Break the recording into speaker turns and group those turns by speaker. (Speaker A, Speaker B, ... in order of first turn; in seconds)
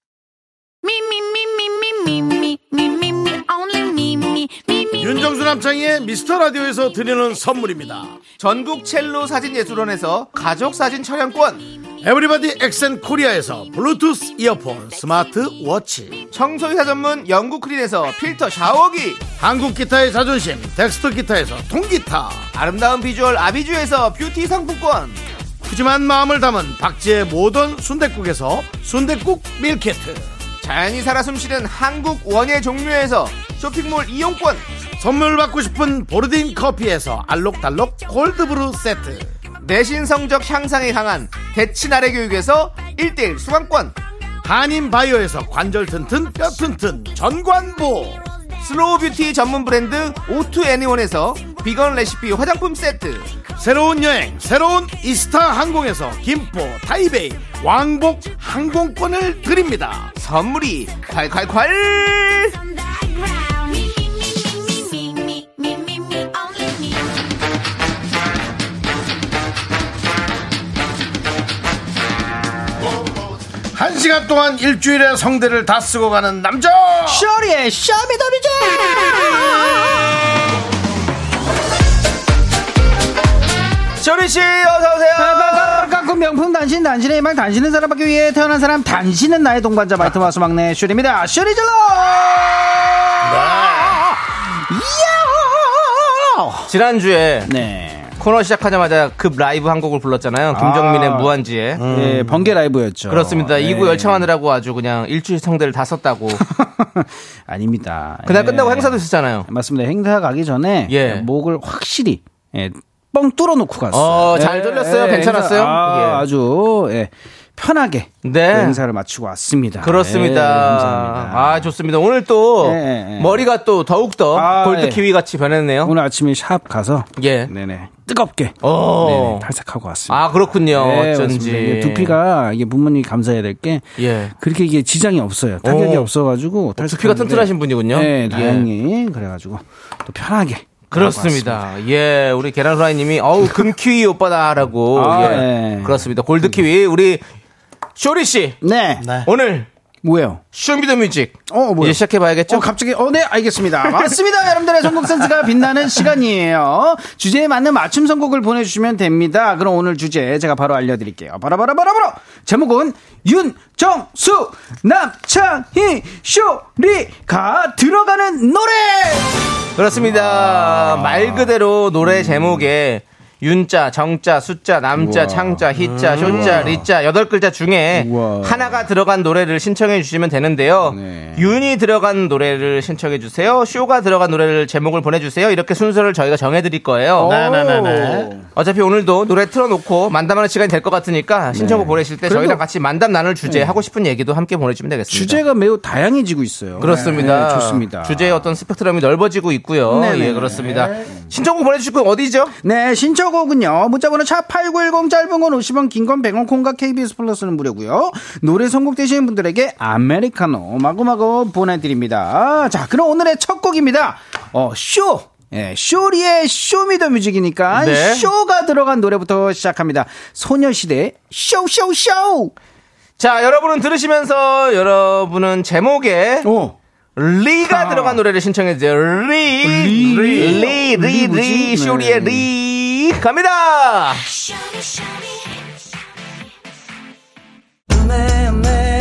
Speaker A: 0.8-5.3, 62.5-67.3
Speaker B: 5.0-8.2, 12.0-16.2, 19.4-22.5, 25.6-30.3, 35.0-39.3, 44.4-48.2, 53.6-60.1, 73.7-77.3, 93.2-94.0, 101.8-102.5, 149.0-149.3, 175.8-176.8, 187.2-188.3, 200.5-201.1
Speaker C: 8.4-11.7, 16.3-19.2, 22.5-25.2, 30.6-34.6, 39.6-44.0, 48.6-53.3, 60.2-62.6, 84.0-85.9, 96.7-97.5, 98.2-101.8, 103.1-106.4, 108.2-109.5, 110.9-111.3, 113.9-116.3, 118.2-118.8, 119.8-125.9, 127.2-127.5, 128.6-129.5, 130.1-132.2, 134.0-134.3, 135.6-136.1, 136.8-138.7, 140.9-147.2, 148.0-148.6, 149.2-149.7, 150.5-152.7, 169.8-187.3, 188.6-195.4, 196.8-202.6, 217.7-218.3, 223.2-226.5, 227.2-234.3
Speaker D: 77.1-80.3, 85.2-96.7, 97.5-98.1, 100.5-101.3, 101.9-104.3, 106.4-121.7, 122.6-123.5, 124.3-125.1, 125.8-141.7, 144.9-146.6, 148.6-149.1, 150.0-150.4, 151.5-169.4, 170.0-171.5, 172.0-172.7, 174.9-175.7, 176.2-176.8, 177.9-178.8, 180.9-181.5, 187.2-188.5, 191.5-192.6, 193.4-193.8, 195.1-198.4, 199.9-200.7, 202.6-222.5, 226.4-226.8, 227.7-228.2, 229.6-232.5